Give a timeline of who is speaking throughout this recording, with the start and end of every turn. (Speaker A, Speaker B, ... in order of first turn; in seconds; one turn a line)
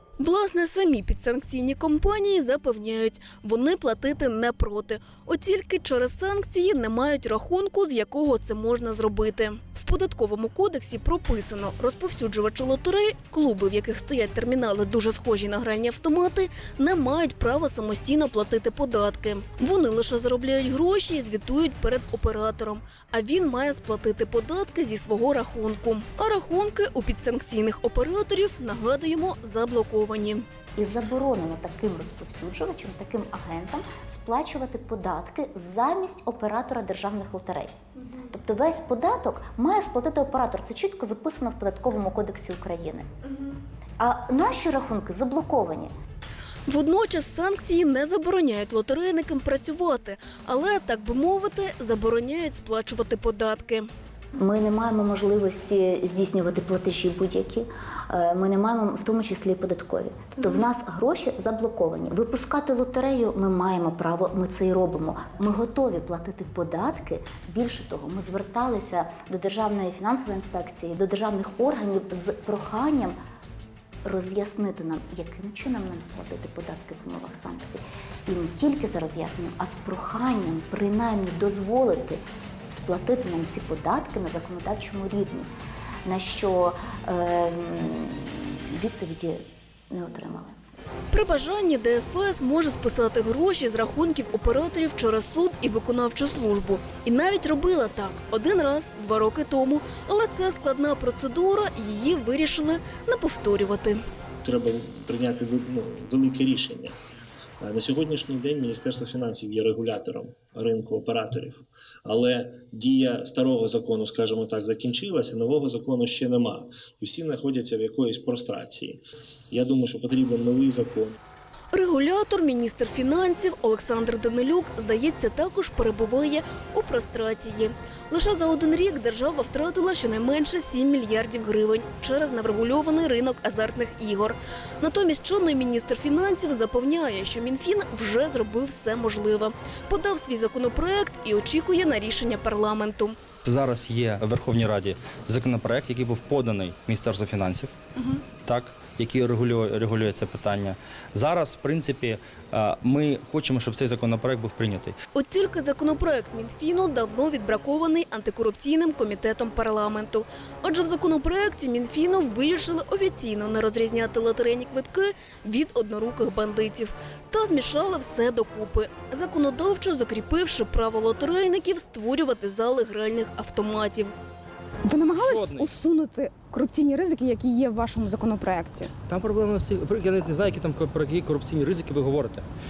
Speaker A: 0.2-30.5
Speaker B: 30.8-43.1
Speaker B: 44.0-45.9
Speaker A: 46.7-53.9
Speaker B: 54.4-73.2
Speaker B: 74.0-85.5
Speaker B: 86.1-90.6
Speaker A: 91.1-104.0
Speaker C: 104.4-107.0
Speaker C: 107.6-121.2
Speaker A: 121.7-143.2
Speaker D: 143.4-147.7
Speaker D: 148.4-155.0
Speaker A: 155.2-174.1
Speaker E: 174.9-178.9
Speaker D: 175.2-175.7
Speaker D: 179.1-182.4